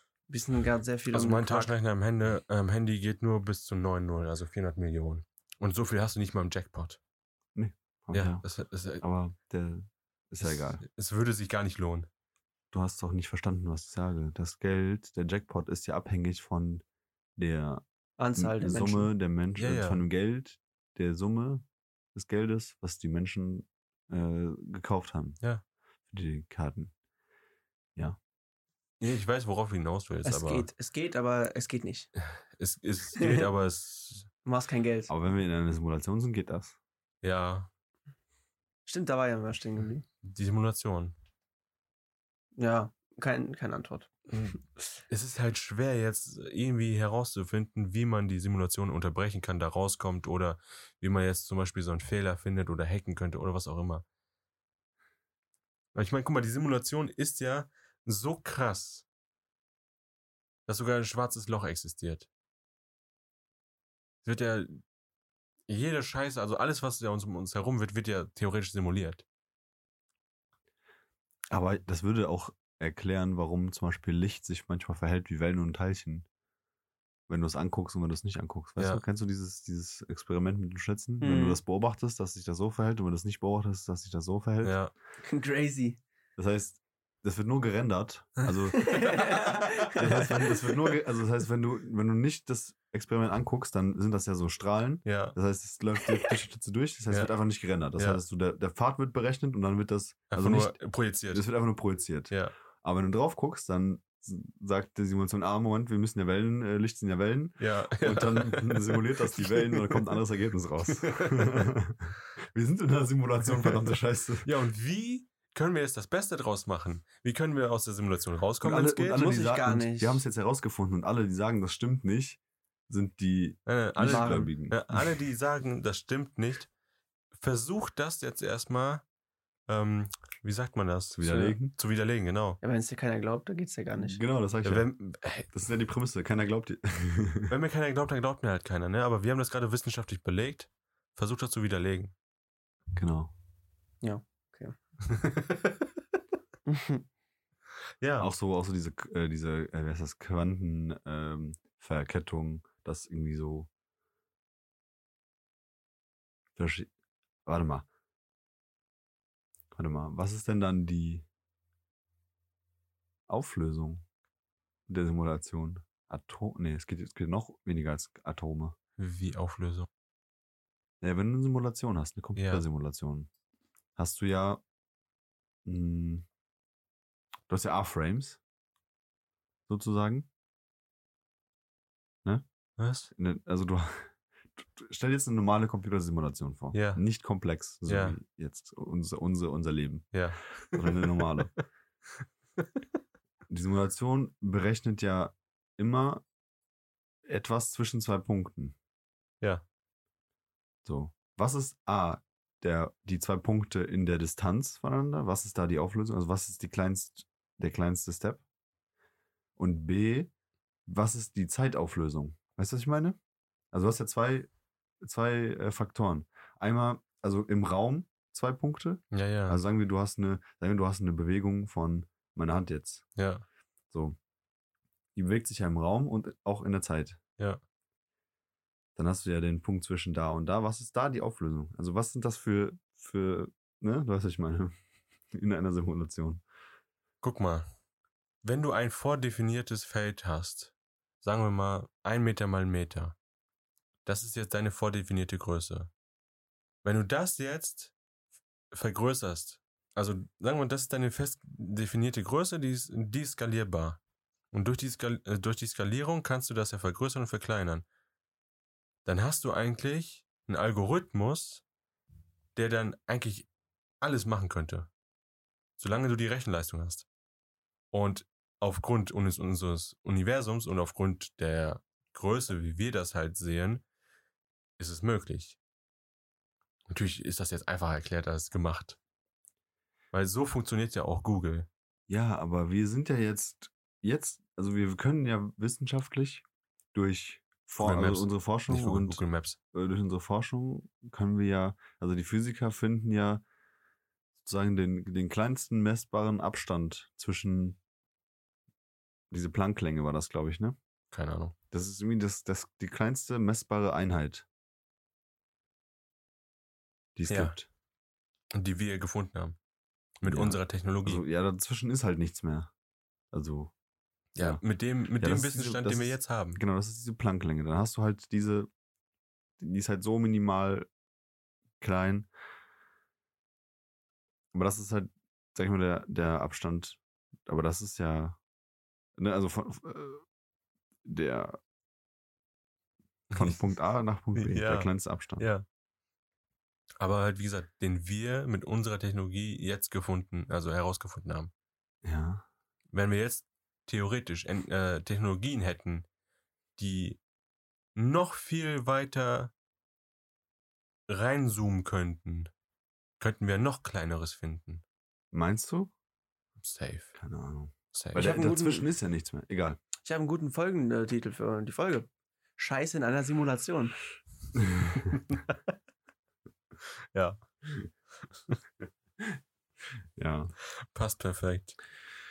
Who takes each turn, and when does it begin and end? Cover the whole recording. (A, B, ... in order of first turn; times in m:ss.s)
0:00.3-0:01.7 A
0:01.1-0:07.0 B
0:07.6-0:08.4 C
0:08.1-0:09.0 B
0:09.0-0:10.8 C
0:10.4-0:12.1 B
0:12.7-0:16.8 C
0:17.4-0:17.8 C
0:18.2-0:19.1 A
0:18.4-0:25.4 C
0:19.6-0:20.0 B
0:26.1-0:26.9 C
0:29.0-0:30.7 B
0:30.2-0:32.1 A
0:32.2-0:34.3 B
0:33.2-0:33.4 A
0:34.4-0:35.1 A
0:35.1-0:36.8 C
0:37.2-0:37.7 B
0:38.9-0:40.1 A
0:40.2-0:41.1 B
0:42.6-0:44.2 A
0:44.3-0:54.0 B
0:56.0-0:59.0 B
1:00.7-1:02.3 B
1:04.2-1:04.8 B
1:05.7-1:09.2 B
1:11.5-1:16.3 C
1:17.3-1:24.8 C
1:18.8-1:19.0 B
1:21.2-1:21.6 A
1:24.6-1:24.9 B
1:25.2-1:26.0 A
1:26.4-1:40.8 C
1:28.7-1:30.8 A
1:35.0-1:35.4 B
1:40.3-1:41.4 B
1:41.3-1:54.5 C
1:47.6-1:50.2 B
1:50.9-1:51.7 B
1:53.5-1:53.8 B
1:54.4-1:59.2 B
1:58.6-2:05.1 C
1:58.7-2:00.2 A
2:03.7-2:06.7 B
2:04.0-2:04.5 A
2:07.4-2:09.0 B
2:09.7-2:12.6 B
2:11.2-2:11.7 C
2:12.6-2:14.2 A
2:14.0-2:14.9 C
2:14.6-2:15.5 B
2:15.5-2:17.6 C
2:17.5-2:22.1 B
2:23.0-2:23.3 C
2:24.0-2:24.8 A
2:25.1-2:25.8 B
2:26.7-2:27.0 A
2:28.0-2:28.3 B
2:28.2-2:33.7 C
2:36.6-2:36.9 C
2:37.5-2:37.9 C
2:39.7-2:41.3 C
2:43.3-2:44.0 C
2:44.9-2:48.8 C
2:49.0-2:49.9 B
2:51.0-2:53.3 C
2:52.4-2:52.6 B
2:54.0-2:54.6 C
2:55.6-2:56.3 C
2:57.5-2:58.4 C
2:59.7-3:00.3 C
3:02.8-3:03.1 B
3:03.1-3:10.1 C
3:06.7-3:07.0 B
3:07.9-3:08.2 B
3:10.1-3:11.6 B
3:10.7-3:11.5 C
3:13.5-3:16.2 C
3:17.3-3:18.8 C
3:20.8-3:28.4 C
3:29.6-3:30.3 C
3:30.9-3:33.2 C
3:33.7-3:34.5 C
3:35.0-3:43.1 C
3:39.1-3:39.6 B
3:43.2-3:43.4 B
3:43.9-3:44.2 C
3:45.2-3:47.2 C
3:49.0-3:54.8 C
3:55.3-3:56.4 C
3:57.2-3:57.7 B
3:58.4-4:03.2 B
4:04.0-4:05.9 B
4:06.8-4:07.9 B
4:08.7-4:14.0 B
4:14.5-4:17.8 B
4:19.0-4:21.6 B
4:22.6-4:23.5 B
4:24.0-4:24.9 B
4:25.8-4:27.1 B
4:27.9-4:33.8 B
4:34.8-4:35.6 B
4:36.9-4:39.0 B
4:40.1-4:41.7 B
4:42.1-4:49.2 C
4:47.8-4:49.6 B
4:49.7-4:53.4 C
4:54.4-4:57.8 C
4:59.3-5:00.8 C
5:01.1-5:01.5 B
5:01.7-5:04.5 C
5:07.2-5:07.7 C
5:07.3-5:07.6 B
5:08.5-5:09.6 B
5:10.2-5:11.2 B
5:10.2-5:12.7 C
5:13.3-5:13.7 C
5:14.4-5:16.6 B
5:15.2-5:18.7 C
5:19.6-5:20.9 C
5:21.8-5:22.3 C
5:24.5-5:28.4 C
5:29.2-5:30.2 C
5:31.0-5:31.6 C
5:33.3-5:33.6 B
5:33.4-5:35.5 C
5:34.4-5:35.6 B
5:37.0-5:41.5 B
5:42.0-5:42.5 C
5:42.9-5:46.1 B
5:46.8-5:47.2 B
5:48.0-5:49.5 B
5:51.1-5:52.5 B
5:53.2-5:54.8 B
5:55.3-5:55.9 C
5:56.6-5:57.2 B
5:57.2-5:59.8 C
5:57.9-5:58.5 B
5:58.1-5:58.9 A
6:00.0-6:04.0 A
6:04.6-6:05.2 C
6:07.1-6:07.7 B
6:10.2-6:10.5 C
6:10.9-6:11.8 B